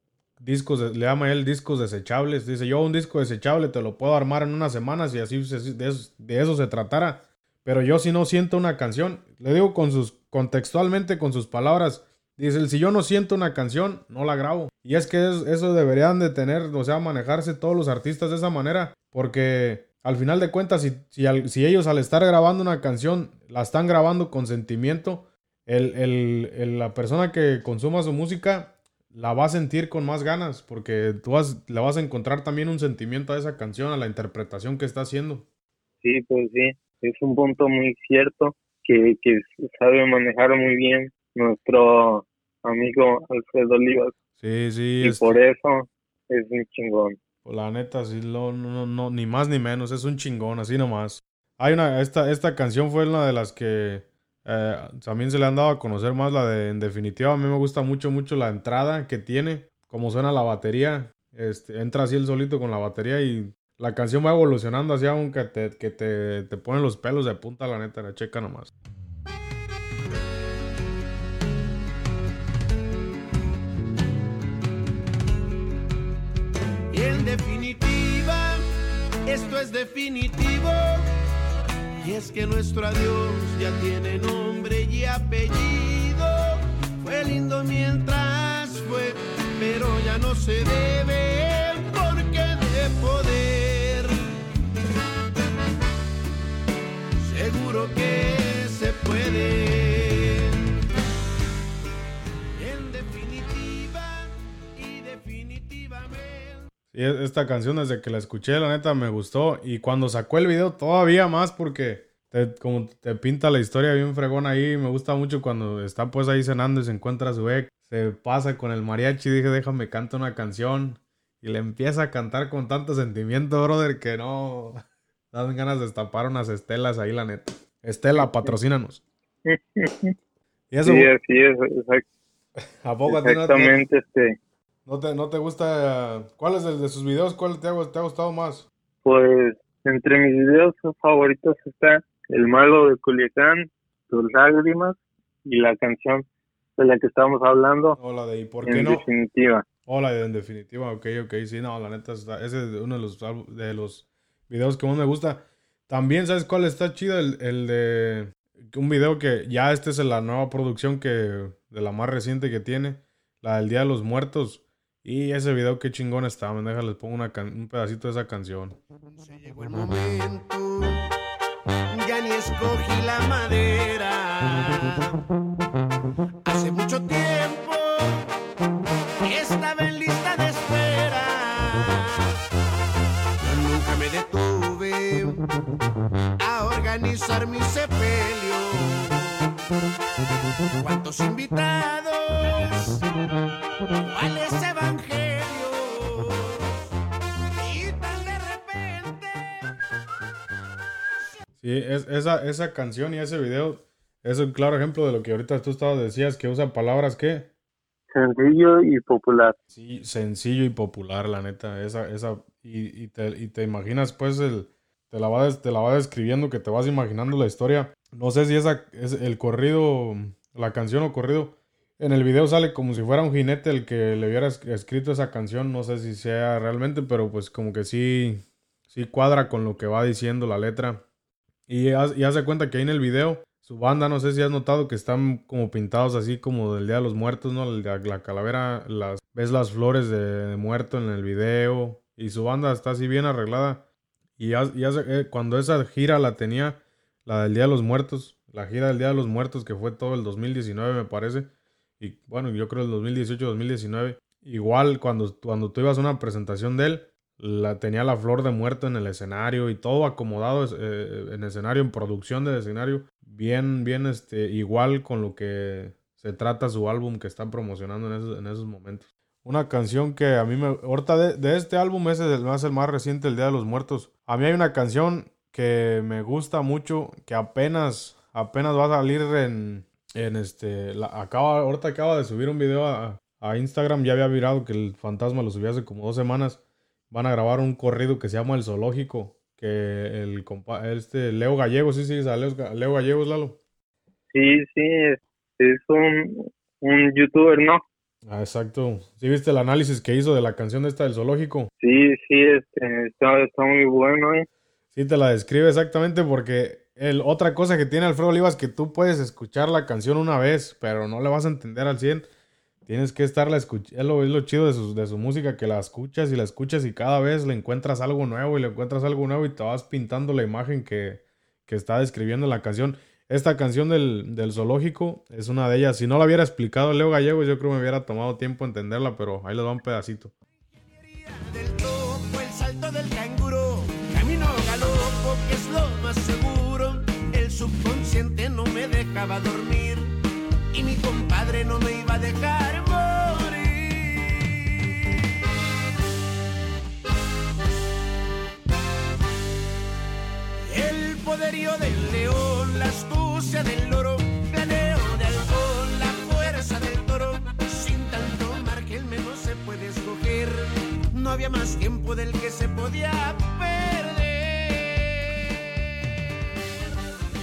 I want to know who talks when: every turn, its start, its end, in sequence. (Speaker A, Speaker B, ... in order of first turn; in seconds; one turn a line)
Speaker A: 0.4-35.5
Speaker B: 36.0-44.1
Speaker A: 44.4-45.4
Speaker B: 45.0-47.2
Speaker A: 47.5-68.7
Speaker C: 76.9-78.6
Speaker C: 79.2-81.1
Speaker C: 82.0-94.3
Speaker C: 97.2-100.8
Speaker C: 102.6-106.7
Speaker A: 106.9-129.0
Speaker B: 128.2-128.6
Speaker B: 129.5-130.1
Speaker A: 130.7-131.1
Speaker B: 130.8-132.1
Speaker A: 132.8-133.8
Speaker B: 133.1-134.4
Speaker A: 134.9-138.7
Speaker B: 139.0-146.3
Speaker B: 146.8-148.0
Speaker A: 148.0-149.0
Speaker B: 148.7-149.7
Speaker A: 149.9-168.8
Speaker C: 169.1-171.1
Speaker C: 171.9-175.2
Speaker C: 176.4-178.3
Speaker C: 179.2-182.4
Speaker C: 183.4-185.4
Speaker C: 186.4-189.5
Speaker C: 190.7-193.1
Speaker C: 194.0-196.8
Speaker C: 197.6-199.7
Speaker A: 201.6-207.5
Speaker B: 208.1-209.6
Speaker A: 209.7-231.0
Speaker A: 231.7-243.8
Speaker A: 244.4-251.5
Speaker A: 252.0-286.6
Speaker A: 287.1-293.6
Speaker B: 294.3-297.8
Speaker A: 298.3-301.7
Speaker B: 301.8-304.5
Speaker A: 304.9-312.3
Speaker A: 312.9-330.3
Speaker C: 330.7-340.2
Speaker C: 340.7-345.3
Speaker C: 350.6-365.8